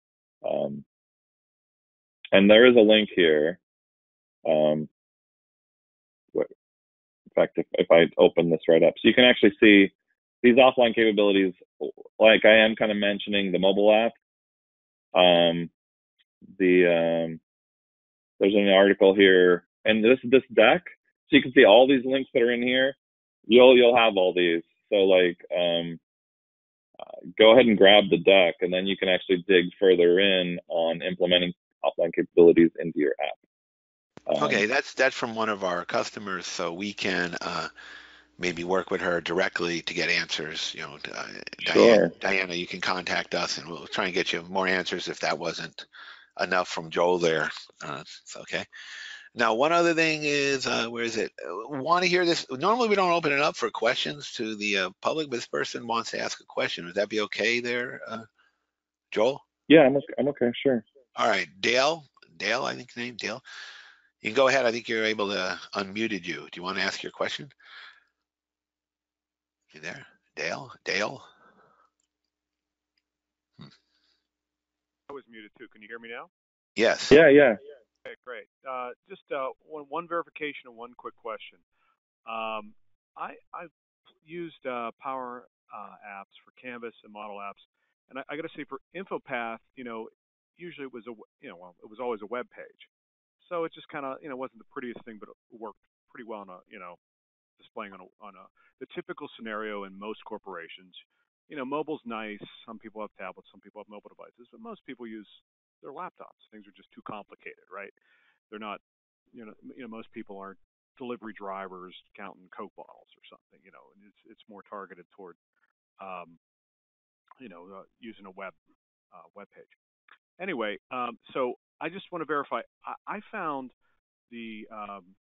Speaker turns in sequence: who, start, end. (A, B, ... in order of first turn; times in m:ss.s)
0:00.4-0:00.8 A
0:02.3-0:03.6 A
0:04.5-0:04.9 A
0:07.4-0:09.9 A
0:10.4-0:14.2 A
0:15.1-0:15.7 A
0:16.6-0:17.4 A
0:18.4-0:23.0 A
0:23.5-0:26.0 A
0:27.4-0:33.4 A
0:34.3-0:34.6 A
0:34.4-0:37.7 B
0:38.4-0:45.8 B
0:41.7-0:42.1 A
0:46.4-0:48.7 B
0:49.4-0:58.3 B
0:59.1-0:59.4 B
0:59.7-1:00.8 A
1:01.2-1:03.4 B
1:04.2-1:07.5 B
1:09.7-1:11.3 B
1:15.1-1:16.3 C
1:16.8-1:17.2 B
1:17.1-1:17.6 A
1:18.0-1:21.6 C
1:22.3-1:23.7 C
1:24.2-1:32.9 C
1:33.4-1:37.0 C
1:37.6-1:47.9 C
1:48.5-1:48.8 C
1:49.3-1:55.4 C
1:56.0-1:56.4 C
1:57.4-1:58.6 C
1:59.1-1:59.8 C
2:00.4-2:03.7 C
2:04.3-2:05.1 C